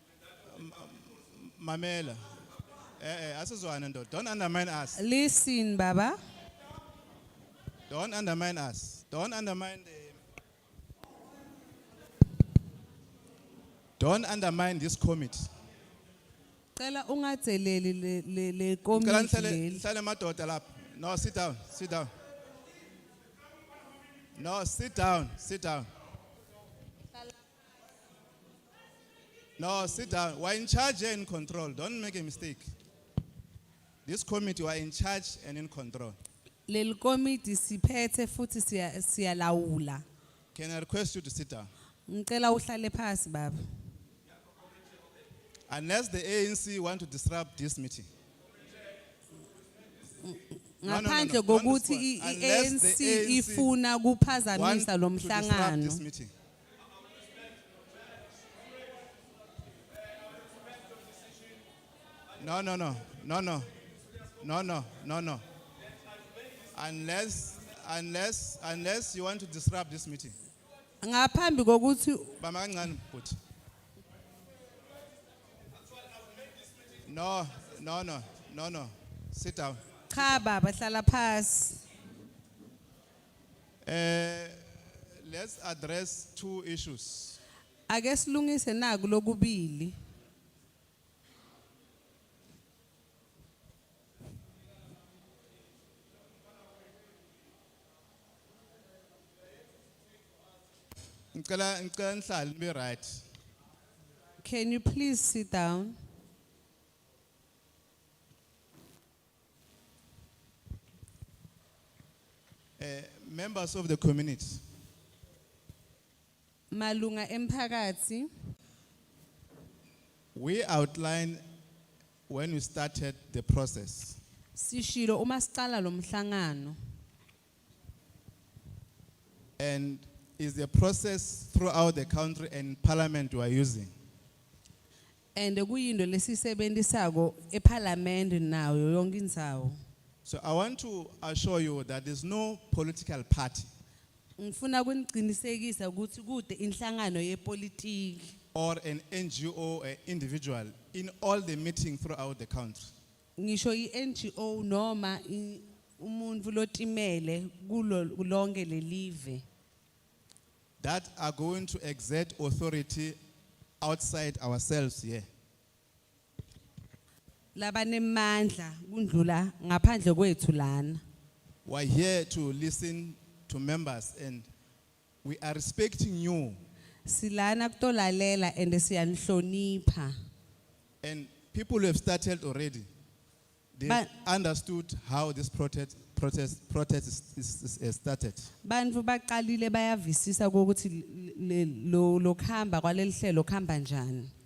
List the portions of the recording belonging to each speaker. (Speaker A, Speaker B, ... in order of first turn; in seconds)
Speaker A: 0.5-2.2, 3.0-5.0, 7.9-10.2, 14.0-15.5, 18.9-22.1, 24.4-25.9, 29.6-32.7, 34.0-36.2, 40.5-41.7, 45.7-48.1, 50.8-53.7, 54.5-56.3, 62.4-63.7, 64.4-65.4, 66.7-70.3, 72.4-73.4, 77.0-80.4, 83.8-87.4, 101.3-103.2, 112.8-114.6, 120.3-121.4, 122.3-124.2, 129.6-133.9, 140.2-143.7, 148.5-152.9, 160.8-163.2, 163.8-165.2, 171.7-174.5, 175.2-176.6, 181.0-182.9, 183.7-188.5
Speaker B: 5.0-6.2, 16.8-19.8, 36.7-40.0, 42.1-43.6, 50.2-56.0, 71.0-72.4, 80.1-81.8, 87.9-90.0, 104.4-106.0, 116.7-118.3, 124.5-126.8, 135.3-139.8, 144.4-148.3, 153.4-159.4, 167.5-171.0, 177.1-180.1, 183.8-184.1, 188.6-194.3